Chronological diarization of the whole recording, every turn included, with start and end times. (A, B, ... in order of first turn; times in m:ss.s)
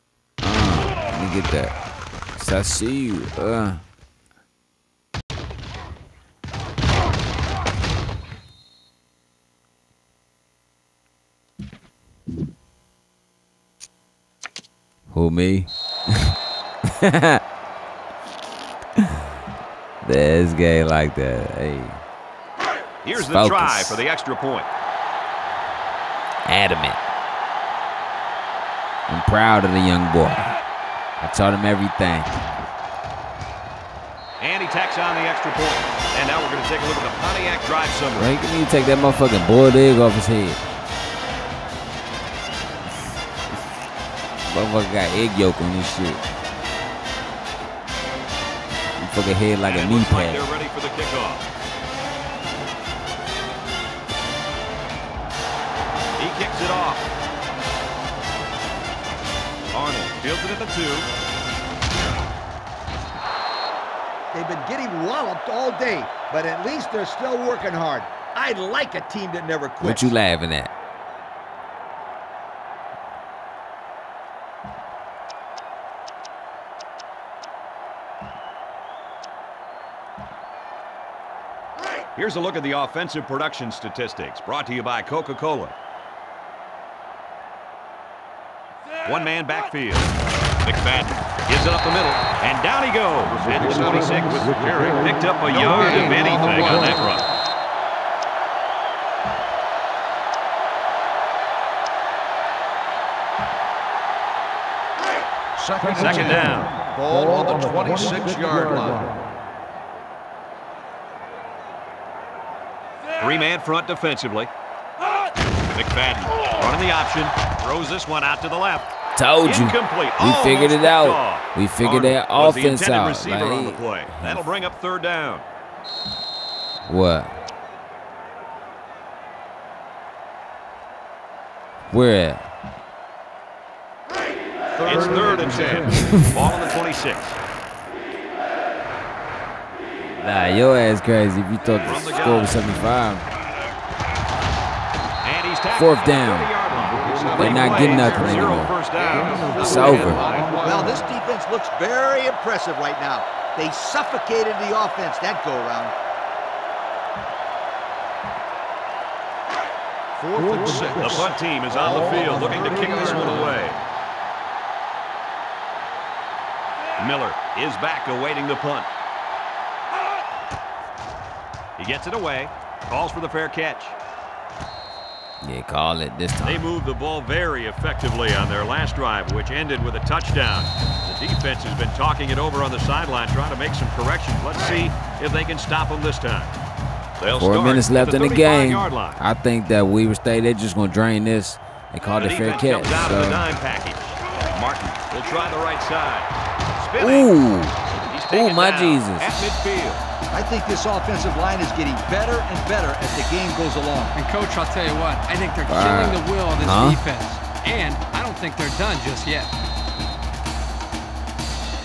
0:00.4-0:01.7 A
0:02.4-0:03.8 A
0:15.1-0:17.4 A
0:19.0-0:19.3 A
0:20.0-0:22.0 A
0:23.0-0:24.7 B
0:23.1-0:24.0 A
0:26.5-0:27.0 A
0:29.1-0:30.6 A
0:31.2-0:32.5 A
0:34.4-0:38.3 B
0:38.2-0:40.6 A
0:44.5-0:46.2 A
0:49.0-0:50.4 A
0:49.6-0:51.5 B
0:56.2-0:57.1 B
0:59.7-1:01.1 B
1:04.3-1:10.1 C
1:09.8-1:10.7 A
1:22.2-1:25.8 B
1:29.0-1:30.1 B
1:30.6-1:37.2 B
1:33.4-1:37.1 D
1:45.6-1:49.1 D
1:46.0-1:46.7 B
1:53.2-1:54.5 B
1:55.7-1:58.9 B
1:59.2-2:04.4 A
1:59.4-2:05.5 B
2:06.9-2:07.4 A
2:11.9-2:12.5 A
2:14.8-2:16.2 D
2:14.8-2:17.4 B
2:15.9-2:16.4 A
2:20.0-2:23.3 A
2:21.8-2:22.6 B
2:25.2-2:30.5 B
2:25.8-2:26.5 A
2:26.9-2:31.0 D
2:27.4-2:28.8 A
2:29.6-2:30.2 A
2:30.6-2:35.9 C
2:40.2-2:43.6 D
2:41.0-2:43.8 B
2:47.0-2:48.9 B
2:51.8-2:54.0 B
2:55.4-2:56.7 A
2:56.4-3:06.6 B
3:07.2-3:09.2 B
3:07.4-3:13.4 A
3:12.2-3:17.3 B
3:17.0-3:17.8 A
3:18.1-3:20.0 B
3:18.3-3:19.3 A
3:20.3-3:24.2 C
3:24.2-3:29.5 E
3:25.7-3:27.0 A